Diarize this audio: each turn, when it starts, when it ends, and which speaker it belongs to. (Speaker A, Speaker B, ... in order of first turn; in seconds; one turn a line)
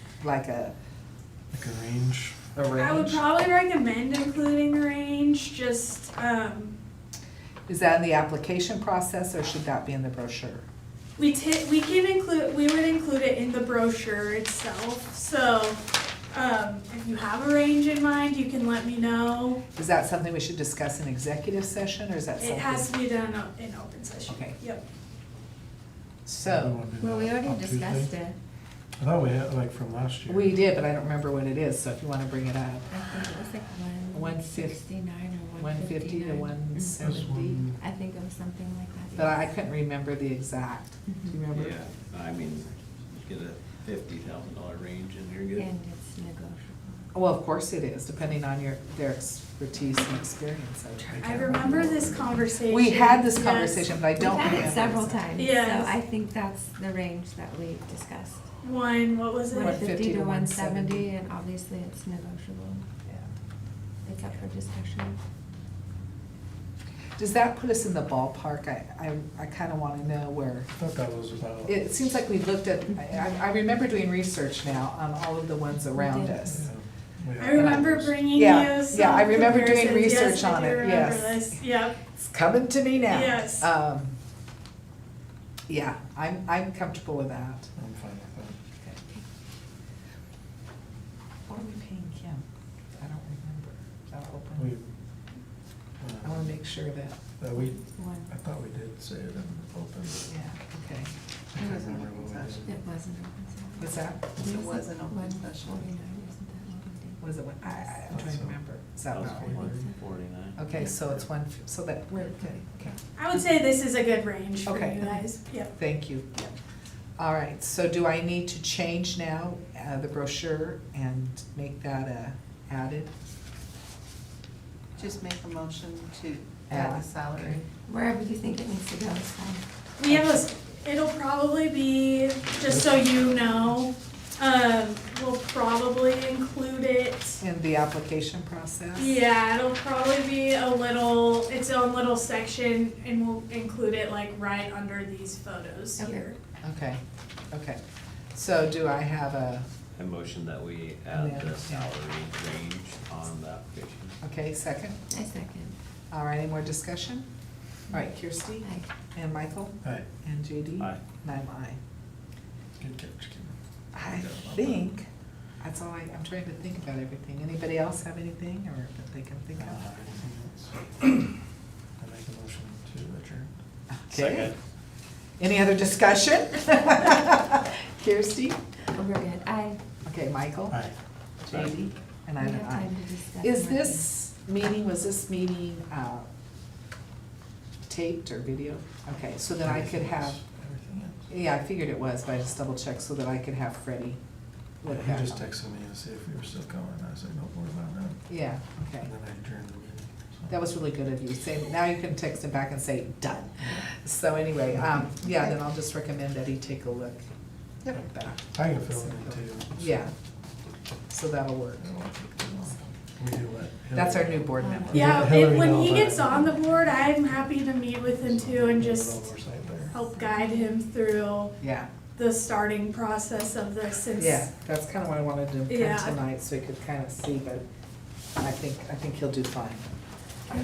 Speaker A: 0.2-0.7
Speaker B: 1.5-2.5
Speaker A: 2.5-3.2
Speaker C: 2.8-6.7
Speaker A: 7.7-10.6
Speaker C: 11.2-19.6
Speaker A: 19.7-22.9
Speaker C: 22.4-24.8
Speaker A: 24.3-24.6
Speaker A: 26.2-26.8
Speaker B: 26.4-28.1
Speaker D: 27.0-28.4
Speaker B: 29.0-30.6
Speaker A: 30.3-32.9
Speaker D: 32.9-37.0
Speaker A: 34.1-34.8
Speaker A: 35.5-37.7
Speaker B: 37.0-37.8
Speaker D: 37.8-39.6
Speaker A: 39.1-41.8
Speaker D: 41.1-41.4
Speaker E: 41.5-45.7
Speaker D: 45.5-47.1
Speaker A: 47.1-55.2
Speaker B: 51.1-52.2
Speaker C: 51.2-53.9
Speaker D: 54.1-58.5
Speaker C: 55.4-55.9
Speaker C: 58.6-59.8
Speaker D: 59.5-62.8
Speaker A: 59.5-61.1
Speaker A: 63.0-63.3
Speaker D: 64.0-65.2
Speaker A: 67.2-70.7
Speaker B: 70.8-71.8
Speaker A: 71.7-76.7
Speaker D: 75.9-76.4
Speaker B: 76.5-78.3
Speaker C: 77.4-82.0
Speaker A: 77.5-84.2
Speaker C: 83.0-83.7
Speaker A: 85.7-87.7
Speaker B: 87.8-88.6
Speaker A: 91.5-92.4
Speaker A: 92.9-94.7
Speaker B: 94.5-94.8
Speaker B: 96.0-96.6
Speaker A: 96.2-97.2
Speaker B: 97.4-100.3
Speaker D: 97.6-98.3
Speaker A: 100.3-101.1
Speaker B: 101.5-102.8
Speaker F: 101.6-102.5
Speaker D: 102.6-107.2
Speaker A: 103.8-104.2
Speaker F: 104.4-105.9
Speaker A: 107.2-109.6
Speaker B: 108.1-108.6
Speaker E: 109.1-110.7
Speaker B: 109.1-109.9
Speaker D: 109.6-109.9
Speaker A: 110.6-113.0
Speaker C: 113.2-116.5
Speaker A: 114.7-115.1
Speaker A: 115.7-116.3
Speaker A: 117.2-123.1
Speaker F: 125.0-127.6
Speaker A: 126.7-127.6
Speaker D: 127.7-129.6
Speaker C: 130.0-137.4
Speaker A: 130.1-130.4
Speaker B: 132.6-133.0
Speaker A: 137.4-139.1
Speaker C: 138.9-146.4
Speaker D: 146.0-146.3
Speaker A: 146.6-147.0
Speaker A: 147.5-147.8
Speaker A: 148.3-149.7
Speaker E: 149.9-154.2
Speaker A: 151.1-151.9
Speaker A: 154.2-155.0
Speaker D: 155.1-155.7
Speaker A: 156.1-157.2
Speaker A: 157.9-161.8
Speaker D: 158.6-158.9
Speaker B: 162.8-164.9
Speaker A: 163.9-165.1
Speaker A: 165.6-169.8
Speaker B: 169.6-170.9
Speaker B: 172.0-173.5
Speaker A: 173.9-174.5
Speaker B: 174.1-174.6
Speaker A: 175.4-178.6
Speaker D: 178.9-179.8
Speaker A: 180.1-180.8
Speaker A: 181.4-182.9
Speaker D: 182.4-184.1
Speaker A: 183.4-186.3
Speaker A: 187.8-190.4
Speaker B: 189.6-191.3
Speaker A: 191.3-194.2
Speaker A: 194.8-195.5
Speaker B: 194.9-198.3
Speaker A: 198.3-199.1
Speaker B: 199.0-200.6
Speaker A: 200.5-207.2
Speaker A: 207.9-210.1
Speaker B: 208.5-210.1
Speaker A: 211.1-211.8
Speaker B: 211.8-216.5
Speaker A: 213.9-215.5
Speaker D: 214.6-215.1
Speaker C: 214.9-219.3
Speaker B: 218.2-219.9
Speaker D: 219.9-220.8
Speaker C: 219.9-221.6
Speaker A: 221.6-221.9
Speaker C: 222.2-224.5
Speaker A: 224.2-227.6
Speaker C: 225.7-226.2
Speaker A: 228.4-229.9